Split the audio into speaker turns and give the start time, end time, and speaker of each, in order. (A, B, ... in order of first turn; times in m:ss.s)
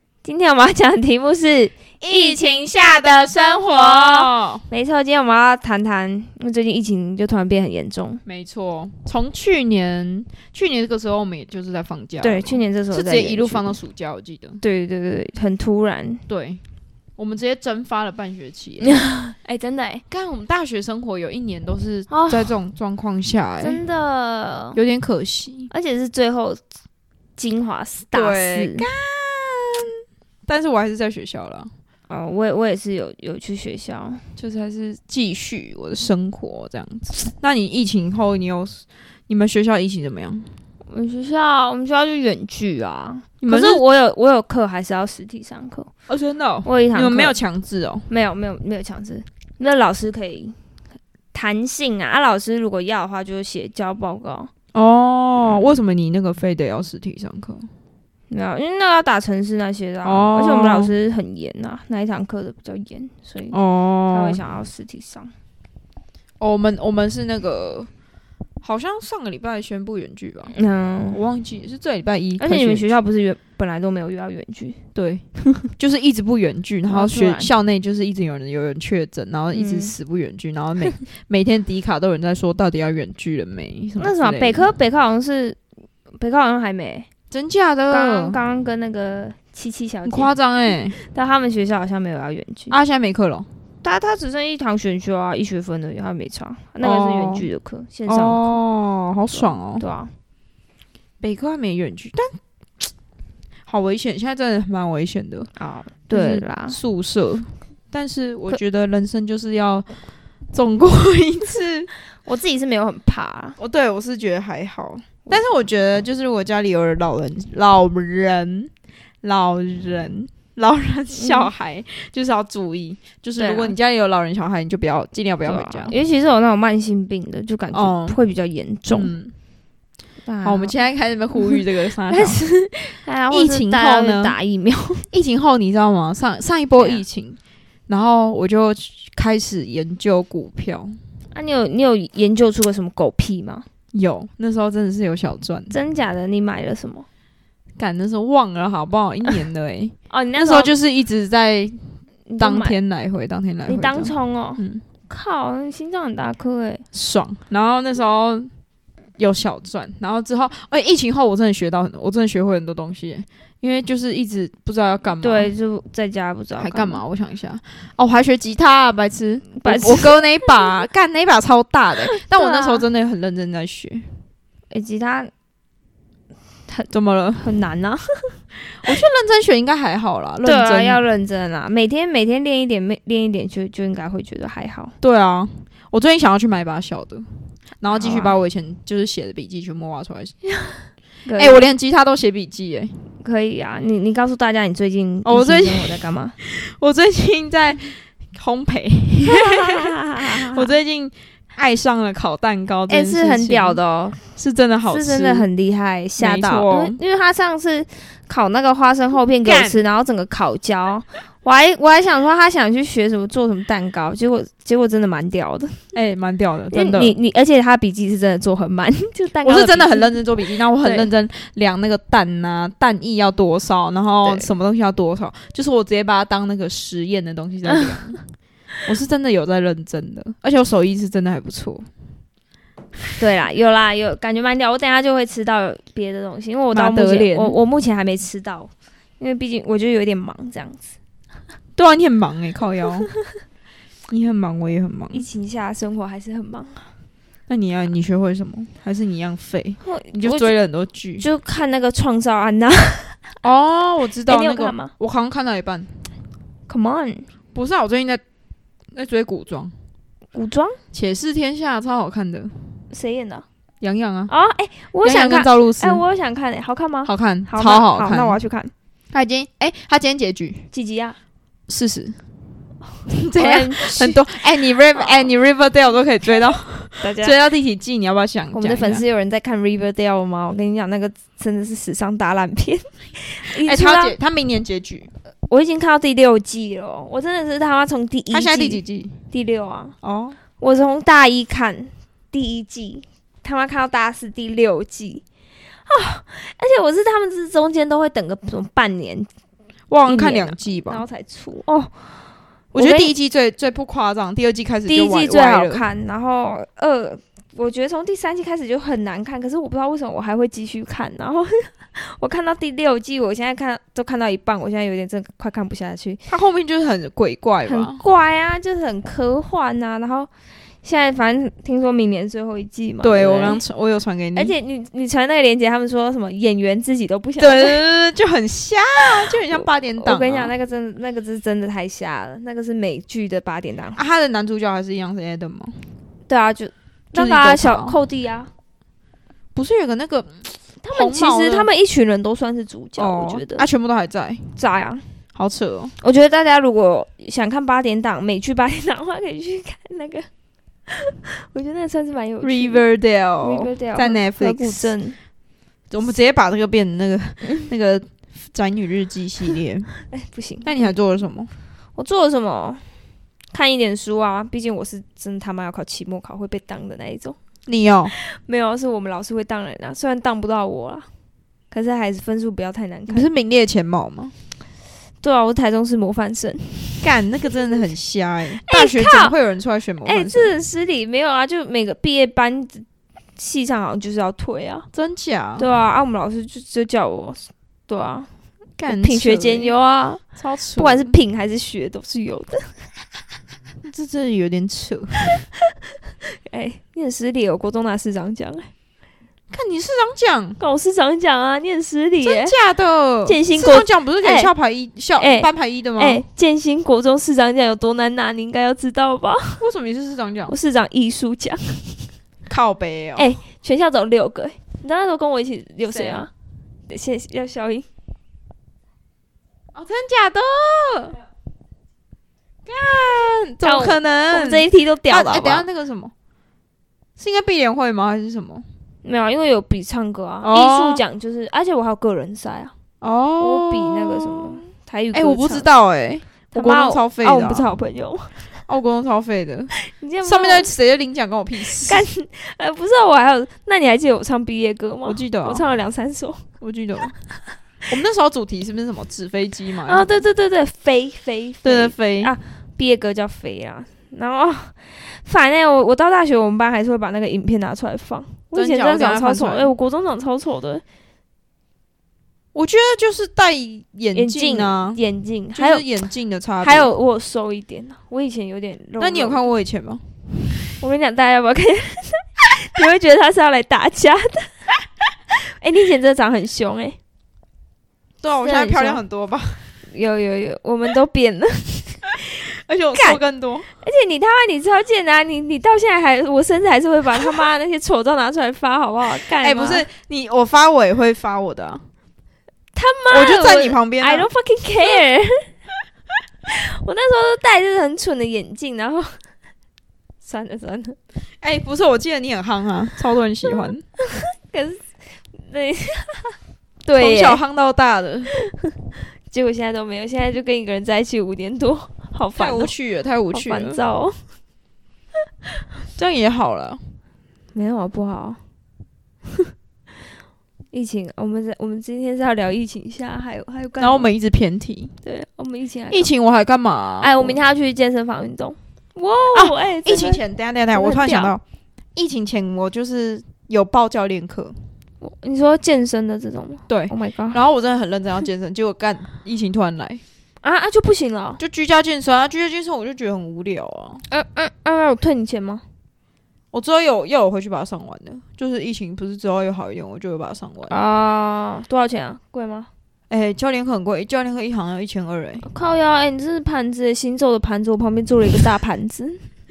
0:00.2-0:02.6 A
0:02.0-0:04.6 B
0:03.5-0:08.2 A
0:08.2-0:14.6 B
0:12.2-0:13.8 A
0:14.6-0:16.2 A
0:16.3-0:16.6 B
0:17.2-0:19.0 B
0:18.9-0:20.0 A
0:20.1-0:23.8 B
0:22.1-0:22.5 A
0:23.6-0:24.8 A
0:24.7-0:25.7 B
0:25.7-0:26.6 A
0:27.4-0:28.8 A
0:28.1-0:29.9 B
0:30.4-0:31.7 B
0:32.1-0:34.2 A
0:34.4-0:40.5 B
0:40.9-0:45.9 A
0:43.4-0:43.8 B
0:46.1-0:48.0 B
0:46.6-0:47.4 A
0:48.1-0:50.6 A
0:51.3-0:54.5 A
0:54.7-0:57.7 B
0:58.3-1:03.6 A
1:00.0-1:00.9 B
1:03.5-1:04.4 B
1:04.1-1:05.3 A
1:06.4-1:07.9 B
1:08.6-1:10.5 B
1:10.5-1:11.2 A
1:11.1-1:12.9 B
1:12.4-1:14.8 A
1:14.9-1:15.2 B
1:15.8-1:24.7 B
1:16.9-1:17.5 A
1:19.5-1:19.9 A
1:24.0-1:25.6 A
1:26.2-1:27.1 A
1:27.3-1:28.4 B
1:27.9-1:30.3 A
1:30.0-1:31.0 B
1:30.9-1:32.8 A
1:32.7-1:33.5 B
1:33.8-1:38.6 A
1:36.8-1:37.5 B
1:38.1-1:39.8 B
1:39.3-1:40.1 A
1:41.2-1:42.3 B
1:43.7-1:45.5 B
1:45.6-1:46.8 A
1:46.1-1:49.9 B
1:50.5-1:51.9 B
1:52.2-1:53.6 A
1:53.6-1:58.7 B
1:59.2-2:05.9 B
2:01.1-2:01.5 A
2:03.4-2:03.7 A
2:05.4-2:09.1 A
2:07.7-2:08.2 B
2:08.9-2:09.3 B
2:10.2-2:10.8 A
2:10.4-2:12.4 B
2:11.3-2:15.1 A
2:13.3-2:14.4 B
2:15.1-2:21.0 B
2:21.3-2:23.6 A
2:23.9-2:25.8 B
2:25.7-2:27.0 A
2:27.8-2:34.8 B
2:30.1-2:30.7 A
2:32.3-2:32.8 A
2:33.6-2:36.8 A
2:36.9-2:38.5 B
2:39.2-2:45.5 B
2:45.2-2:47.0 A
2:46.6-2:54.1 B
2:49.6-2:50.1 A
2:52.1-2:52.8 A
2:54.7-2:55.3 A
2:56.7-2:58.3 A
2:56.9-2:57.5 B
2:58.8-3:01.0 B
3:00.4-3:04.9 A
3:05.0-3:07.2 B
3:07.8-3:10.3 B
3:07.9-3:08.3 A
3:11.2-3:11.6 A
3:11.4-3:12.9 B
3:13.2-3:16.4 A
3:15.2-3:23.8 B
3:19.3-3:20.7 A
3:22.9-3:24.2 A
3:24.4-3:25.5 B
3:24.9-3:35.8 A
3:26.2-3:27.0 B
3:29.4-3:29.8 B
3:35.9-3:37.2 B
3:36.7-3:41.1 A
3:39.4-3:48.2 B
3:48.8-3:51.9 B
3:53.2-4:00.9 A
3:56.7-3:57.6 B
4:01.8-4:03.1 B
4:04.1-4:05.2 B
4:05.1-4:06.9 A
4:07.5-4:11.3 B
4:09.8-4:10.5 A
4:11.2-4:13.1 A
4:13.4-4:16.0 B
4:14.3-4:14.9 A
4:16.7-4:17.3 A
4:17.5-4:18.2 B
4:18.9-4:19.7 B
4:20.3-4:20.8 A
4:20.9-4:22.5 B
4:22.9-4:23.4 A
4:23.8-4:24.3 B
4:24.3-4:28.7 A
4:25.0-4:26.0 B
4:27.0-4:28.4 B
4:29.1-4:30.6 B
4:30.7-4:31.2 A
4:31.7-4:32.2 B
4:33.1-4:39.0 B
4:33.4-4:34.2 A
4:37.0-4:37.3 A
4:38.5-4:44.1 A
4:43.6-4:45.1 B
4:45.5-4:49.9 A
4:48.3-4:49.2 B
4:50.0-4:50.4 B
4:50.6-4:55.2 A
4:55.9-4:59.3 A
4:59.9-5:01.0 B
5:00.0-5:01.9 A
5:02.7-5:05.8 B
5:02.8-5:03.1 A
5:04.9-5:16.2 A
5:16.3-5:18.0 B
5:17.6-5:20.3 A
5:20.8-5:23.6 A
5:23.0-5:24.5 B
5:24.3-5:27.8 A
5:27.4-5:30.5 B
5:29.5-5:34.0 A
5:34.0-5:35.8 B
5:36.3-5:38.5 A
5:37.1-5:38.0 B
5:39.5-5:41.7 B
5:40.8-5:43.6 A
5:43.0-5:44.4 B
5:44.6-5:45.0 A
5:45.3-5:45.9 B
5:46.0-5:50.3 A
5:50.9-5:52.8 A
5:52.4-5:54.9 B
5:53.4-5:55.2 A
5:55.9-5:59.9 B
6:00.1-6:00.9 A
6:00.6-6:01.5 B
6:02.0-6:02.8 A
6:03.5-6:07.4 A
6:07.6-6:08.1 B
6:08.1-6:11.1 A
6:11.7-6:13.3 A
6:13.1-6:14.3 B
6:15.2-6:17.0 A
6:17.0-6:20.5 B
6:18.7-6:19.3 A
6:20.0-6:22.8 A
6:23.4-6:24.9 A
6:24.9-6:25.6 B
6:25.6-6:28.3 A
6:28.8-6:29.7 B
6:28.9-6:30.2 A
6:30.4-6:31.2 B
6:30.8-6:32.7 A
6:33.8-6:35.3 B
6:36.4-6:38.7 A
6:39.5-6:40.6 B
6:40.6-6:42.5 A
6:42.2-6:46.2 B
6:43.2-6:44.5 A
6:45.2-6:49.6 A
6:49.6-6:50.5 B
6:50.5-6:51.9 A
6:52.5-6:53.2 B
6:53.2-6:56.3 A
6:55.8-6:56.3 B
6:56.9-6:57.9 A
6:59.7-7:01.2 B
7:02.6-7:06.1 B
7:03.6-7:05.6 A
7:07.2-7:08.6 B
7:09.0-7:12.7 A
7:10.4-7:11.0 B
7:13.0-7:14.6 B
7:13.4-7:15.7 A
7:15.1-7:17.7 B
7:16.5-7:18.4 A
7:18.7-7:19.7 B
7:19.9-7:20.7 A
7:20.2-7:22.0 B
7:21.8-7:26.4 A
7:25.0-7:25.6 B
7:26.6-7:27.1 B
7:27.9-7:30.2 B
7:29.8-7:40.8 A
7:31.6-7:32.3 B
7:38.5-7:39.7 B
7:42.5-7:45.0 B
7:44.1-7:45.8 A
7:45.5-7:46.9 B
7:46.6-7:49.5 A
7:49.0-7:50.0 B
7:50.8-7:54.5 A
7:55.6-7:57.0 A
7:58.2-7:59.6 B
7:58.4-7:59.0 A
7:59.9-8:03.2 A
8:02.6-8:03.7 B
8:03.8-8:09.8 A
8:09.2-8:11.8 B
8:12.7-8:15.5 A
8:13.1-8:14.3 B
8:16.5-8:19.2 A
8:20.2-8:21.0 A
8:21.4-8:23.8 B
8:24.1-8:27.4 A
8:27.0-8:28.3 B
8:29.3-8:32.7 A
8:32.4-8:33.8 B
8:33.3-8:34.2 A
8:36.0-8:36.8 B
8:37.5-8:38.4 A
8:40.7-8:44.1 A
8:43.8-8:44.9 B
8:45.0-8:46.1 A
8:45.9-8:47.4 B
8:47.0-8:50.2 A
8:49.3-8:51.4 B
8:50.7-8:51.3 A
8:51.9-8:54.5 B
8:55.0-8:57.4 A
8:56.7-9:00.0 B
9:00.4-9:01.4 A
9:01.4-9:04.0 B
9:04.1-9:05.6 A
9:06.5-9:10.8 B
9:10.7-9:12.7 A
9:13.1-9:15.5 B
9:15.4-9:19.2 A